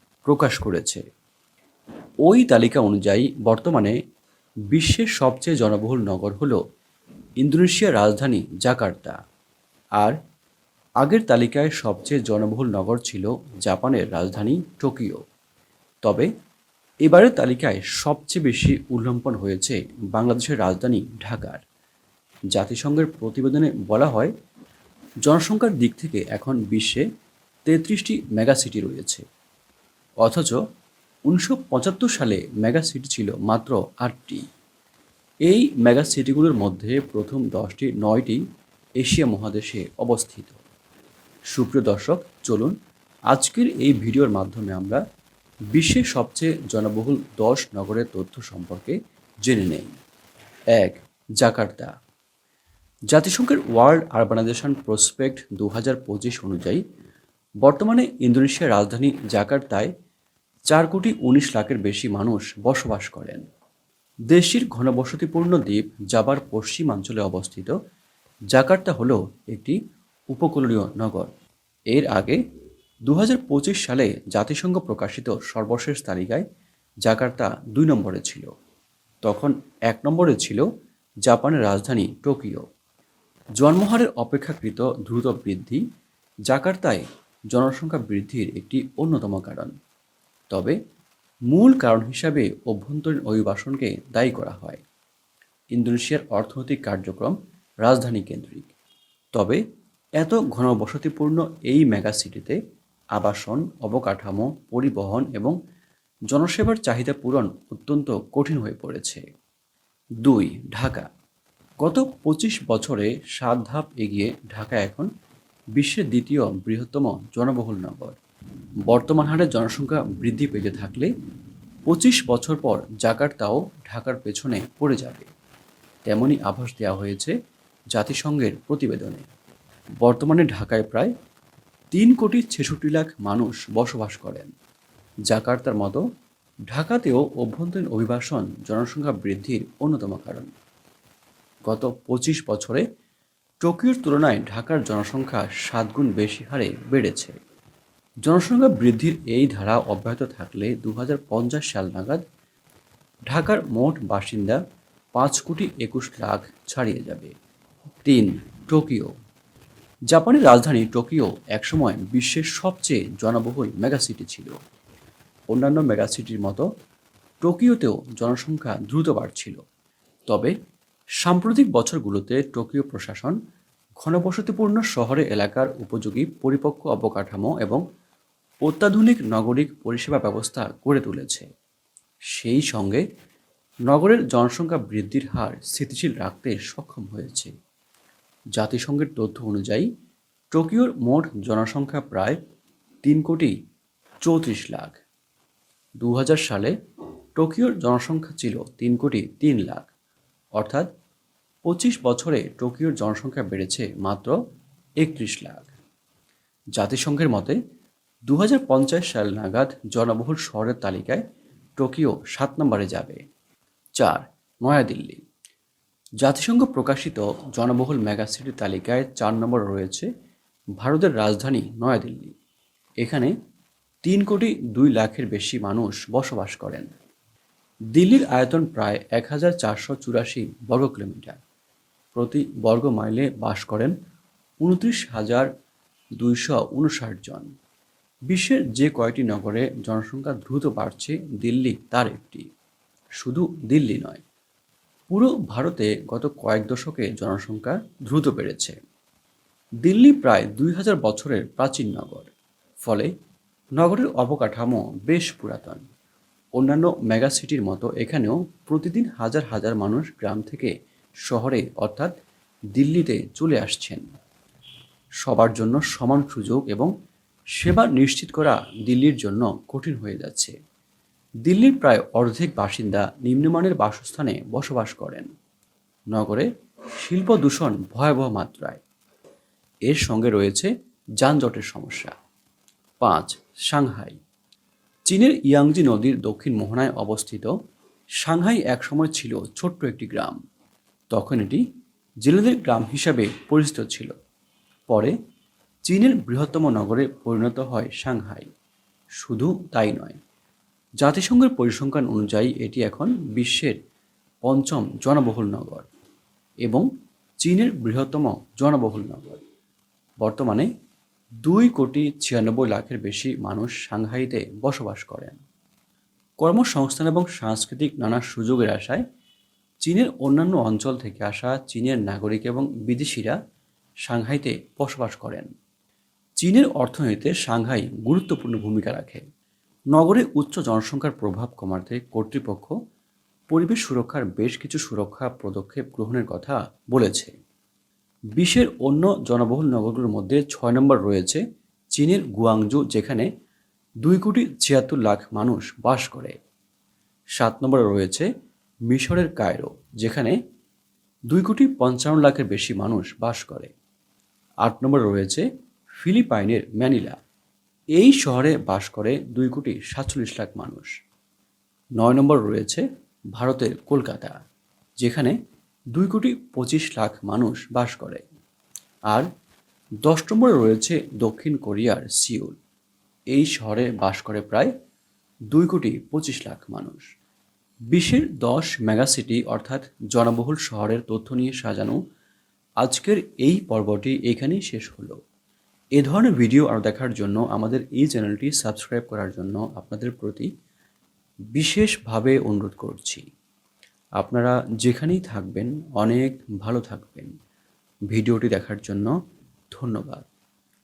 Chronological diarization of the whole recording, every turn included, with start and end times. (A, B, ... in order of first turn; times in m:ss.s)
0:00.2-0:01.0 A
0:02.2-0:03.9 A
0:04.7-0:06.6 A
0:07.4-0:09.2 A
0:11.0-0:15.2 A
0:17.0-0:21.6 A
0:22.5-0:24.3 A
0:25.2-0:27.0 A
0:27.6-0:29.2 A
0:30.2-0:30.6 A
0:31.3-0:34.4 A
0:35.4-0:38.4 A
0:39.0-0:40.6 A
0:41.5-0:42.7 A
0:43.3-0:45.0 A
0:45.7-0:49.9 A
0:50.7-0:51.9 A
0:53.1-0:56.8 A
0:57.6-0:59.9 A
1:00.7-1:03.4 A
1:04.3-1:07.8 A
1:08.5-1:09.8 A
1:10.3-1:11.3 A
1:11.9-1:12.4 A
1:13.0-1:16.4 A
1:17.0-1:18.5 A
1:19.2-1:20.6 A
1:21.3-1:22.6 A
1:23.6-1:25.8 A
1:26.5-1:29.7 A
1:30.5-1:30.8 A
1:31.5-1:34.8 A
1:35.7-1:38.7 A
1:39.3-1:39.6 A
1:40.2-1:42.6 A
1:43.1-1:45.5 A
1:46.3-1:49.2 A
1:50.2-1:51.1 A
1:51.8-1:55.1 A
1:55.8-1:58.2 A
1:58.9-2:01.1 A
2:01.9-2:05.3 A
2:06.1-2:07.3 A
2:07.9-2:09.2 A
2:10.0-2:11.1 A
2:11.9-2:14.5 A
2:15.3-2:16.0 A
2:16.7-2:20.5 A
2:21.7-2:22.8 A
2:23.6-2:27.4 A
2:28.2-2:32.2 A
2:33.3-2:34.6 A
2:35.2-2:37.3 A
2:38.0-2:39.1 A
2:40.1-2:44.5 A
2:45.5-2:46.6 A
2:47.4-2:49.6 A
2:50.3-2:50.5 A
2:51.2-2:53.4 A
2:54.0-2:57.8 A
2:58.6-3:01.5 A
3:02.3-3:03.0 A
3:03.9-3:07.5 A
3:08.6-3:09.9 A
3:10.5-3:12.4 A
3:13.0-3:13.5 A
3:14.2-3:15.0 A
3:16.0-3:16.7 A
3:17.4-3:19.9 A
3:20.6-3:20.9 A
3:21.6-3:24.4 A
3:25.0-3:25.7 A
3:26.8-3:27.6 A
3:28.3-3:31.2 A
3:31.8-3:33.2 A
3:34.0-3:35.2 A
3:36.2-3:40.1 A
3:40.8-3:42.3 A
3:43.0-3:43.3 A
3:44.0-3:46.9 A
3:47.9-3:51.4 A
3:52.1-3:53.9 A
3:54.6-3:55.5 A
3:56.2-3:57.5 A
3:58.3-4:02.4 A
4:03.2-4:04.2 A
4:05.1-4:08.8 A
4:09.8-4:12.3 A
4:13.8-4:15.8 A
4:16.6-4:20.7 A
4:21.3-4:22.1 A
4:22.7-4:24.0 A
4:25.2-4:26.9 A
4:27.6-4:30.5 A
4:31.4-4:35.3 A
4:36.1-4:36.5 A
4:37.0-4:38.8 A
4:39.9-4:40.7 A
4:41.2-4:42.1 A
4:43.0-4:44.2 A
4:45.0-4:47.5 A
4:48.2-4:50.4 A
4:51.1-4:51.6 A
4:52.2-4:54.1 A
4:54.9-4:55.1 A
4:55.8-4:58.5 A
4:59.2-5:00.2 A
5:01.0-5:03.8 A
5:04.4-5:05.9 A
5:07.4-5:09.4 A
5:10.2-5:10.7 A
5:11.4-5:15.4 A
5:16.4-5:19.0 A
5:19.8-5:23.4 A
5:24.1-5:25.5 A
5:26.4-5:29.2 A
5:29.9-5:32.7 A
5:33.5-5:37.3 A
5:38.4-5:41.4 A
5:41.9-5:43.3 A
5:44.0-5:46.4 A
5:47.4-5:48.3 A
5:48.9-5:50.4 A
5:51.3-5:53.7 A
5:54.6-5:55.4 A
5:56.0-5:57.2 A
5:58.0-6:00.9 A
6:02.0-6:02.8 A
6:03.4-6:04.4 A
6:05.0-6:05.4 A
6:05.9-6:08.2 A
6:10.0-6:12.6 A
6:13.3-6:14.7 A
6:15.5-6:17.0 A
6:17.9-6:22.0 A
6:22.8-6:25.2 A
6:26.0-6:30.5 A
6:31.5-6:33.2 A
6:34.2-6:37.3 A
6:38.1-6:39.1 A
6:39.7-6:40.2 A